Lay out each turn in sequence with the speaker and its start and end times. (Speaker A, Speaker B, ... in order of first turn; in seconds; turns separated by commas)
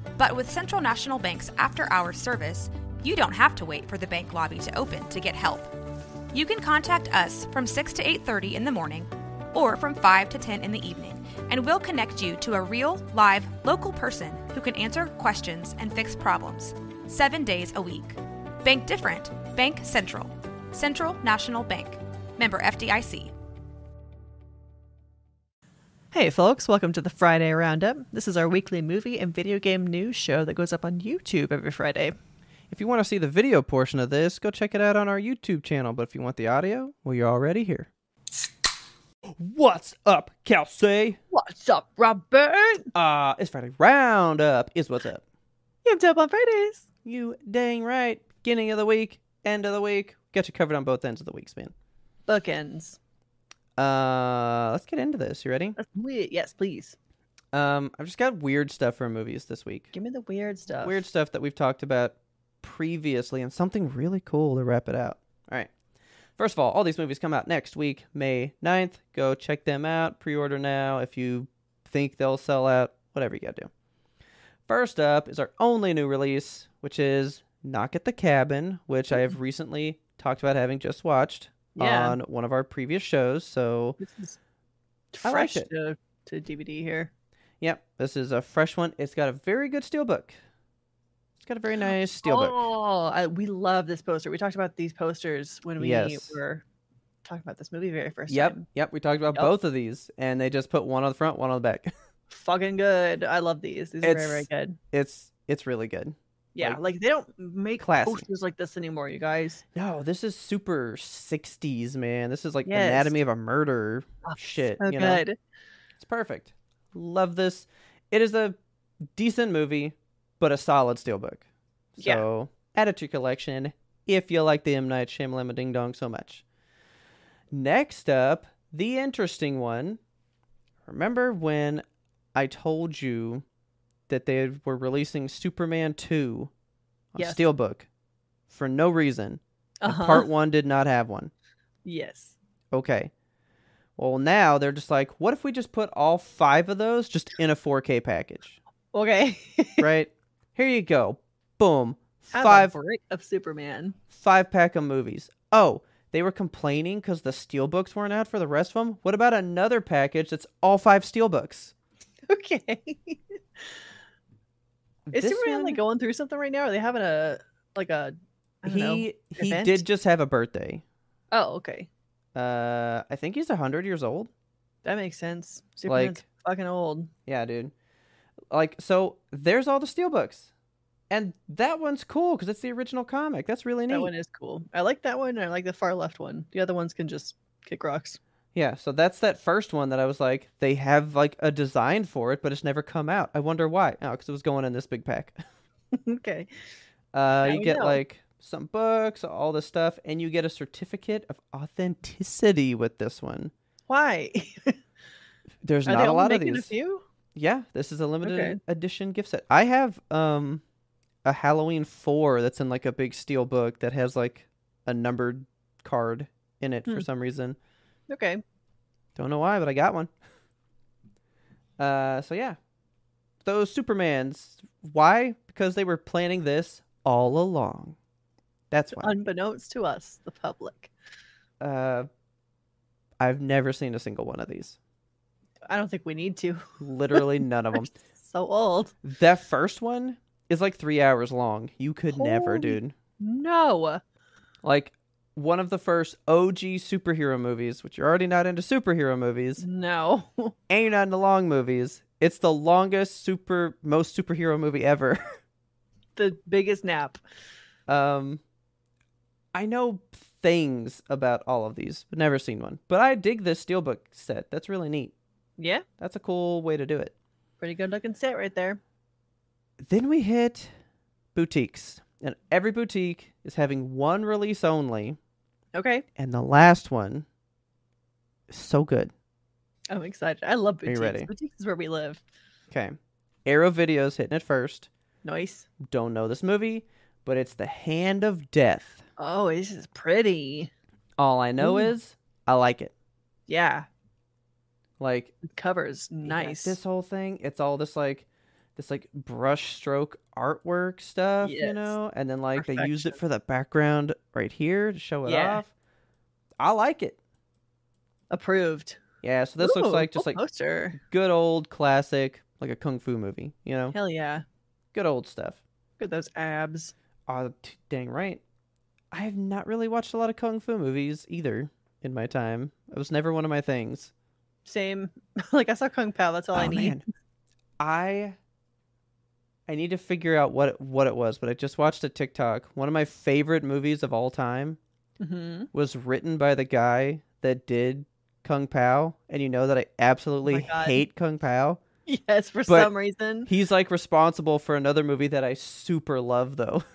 Speaker A: 0.2-5.7, Speaker A: 6.3-23.3, Speaker B: 26.1-32.1, Speaker C: 32.7-37.9, Speaker C: 39.4-41.2, Speaker B: 41.3-42.9, Speaker C: 43.0-45.2, Speaker B: 45.9-46.9, Speaker C: 47.0-51.7, Speaker B: 52.3-53.0, Speaker C: 53.8-55.8, Speaker B: 55.8-57.0, Speaker C: 57.5-59.9, Speaker B: 59.9-61.0, Speaker C: 60.8-65.7, Speaker C: 66.4-73.7, Speaker C: 74.7-84.0, Speaker B: 81.8-82.2, Speaker B: 84.0-84.4, Speaker B: 85.1-87.1, Speaker C: 85.2-85.7, Speaker C: 87.6-90.4, Speaker C: 91.4-92.6, Speaker B: 92.2-96.6, Speaker C: 95.8-96.4, Speaker B: 97.2-98.7, Speaker C: 98.3-101.9, Speaker B: 102.3-104.8, Speaker C: 104.0-106.8, Speaker B: 106.5-109.6, Speaker C: 107.8-108.2, Speaker C: 109.8-115.2, Speaker B: 112.7-113.2, Speaker B: 114.2-115.4, Speaker C: 116.0-118.6, Speaker C: 119.1-121.4, Speaker C: 122.0-126.4, Speaker C: 127.5-130.0, Speaker C: 130.8-131.8, Speaker C: 132.3-133.4, Speaker C: 134.1-136.5, Speaker C: 137.1-137.9, Speaker B: 137.2-137.5, Speaker C: 138.5-141.3, Speaker B: 139.8-140.3, Speaker B: 141.8-142.4, Speaker C: 142.7-143.1, Speaker C: 144.0-148.6, Speaker B: 148.9-149.9, Speaker C: 149.8-152.7, Speaker B: 152.3-154.0, Speaker C: 154.1-161.7, Speaker B: 162.3-163.2, Speaker C: 165.1-165.8, Speaker B: 165.1-169.8, Speaker C: 168.7-170.8, Speaker B: 171.3-171.9, Speaker C: 172.3-174.3, Speaker B: 174.8-177.1, Speaker C: 175.9-176.2, Speaker C: 177.3-177.7, Speaker C: 178.5-180.5, Speaker C: 181.1-184.1, Speaker B: 183.9-188.2, Speaker C: 188.5-195.4, Speaker B: 195.9-196.5, Speaker C: 197.1-203.5, Speaker B: 197.4-198.0, Speaker B: 203.9-204.8, Speaker C: 205.6-206.7, Speaker B: 205.9-207.0, Speaker C: 207.3-210.6, Speaker B: 208.2-208.6, Speaker C: 211.2-217.6, Speaker B: 218.1-218.4, Speaker C: 219.2-220.1, Speaker C: 221.8-222.6, Speaker C: 223.4-228.0, Speaker C: 228.7-229.1, Speaker B: 229.0-230.9, Speaker C: 231.6-232.1, Speaker C: 233.2-234.8, Speaker B: 235.7-238.9, Speaker C: 236.8-237.9, Speaker C: 239.0-242.9, Speaker B: 242.1-244.0, Speaker C: 244.6-249.6, Speaker B: 249.6-250.6, Speaker C: 250.7-255.2, Speaker B: 256.2-257.2, Speaker C: 257.9-258.4, Speaker C: 259.5-265.1, Speaker B: 265.6-265.9, Speaker C: 266.0-267.1, Speaker B: 267.6-268.8, Speaker C: 269.8-270.7, Speaker C: 271.4-275.2, Speaker B: 275.7-276.1, Speaker C: 276.2-277.3, Speaker C: 278.5-279.1, Speaker B: 279.9-282.2, Speaker C: 280.9-281.3, Speaker C: 282.7-284.9, Speaker B: 285.2-285.7, Speaker C: 285.8-289.0, Speaker B: 289.2-290.7, Speaker C: 291.2-292.9, Speaker B: 291.6-291.9, Speaker B: 293.5-293.9, Speaker C: 295.0-295.3, Speaker B: 295.5-296.8, Speaker C: 296.2-305.7, Speaker B: 301.4-301.9, Speaker B: 302.6-303.2, Speaker B: 305.2-305.6, Speaker C: 306.6-307.2, Speaker B: 308.3-309.0, Speaker C: 309.2-310.4, Speaker B: 309.6-311.0, Speaker C: 311.0-314.0, Speaker B: 313.9-314.4, Speaker C: 314.9-315.6, Speaker B: 316.0-316.9, Speaker C: 317.3-318.4, Speaker C: 319.1-324.1, Speaker B: 324.7-327.0, Speaker C: 326.5-327.0, Speaker C: 327.8-328.4, Speaker C: 329.7-334.8, Speaker B: 335.2-335.7, Speaker C: 335.7-341.8, Speaker B: 340.5-341.0, Speaker B: 342.1-343.5, Speaker C: 343.5-346.8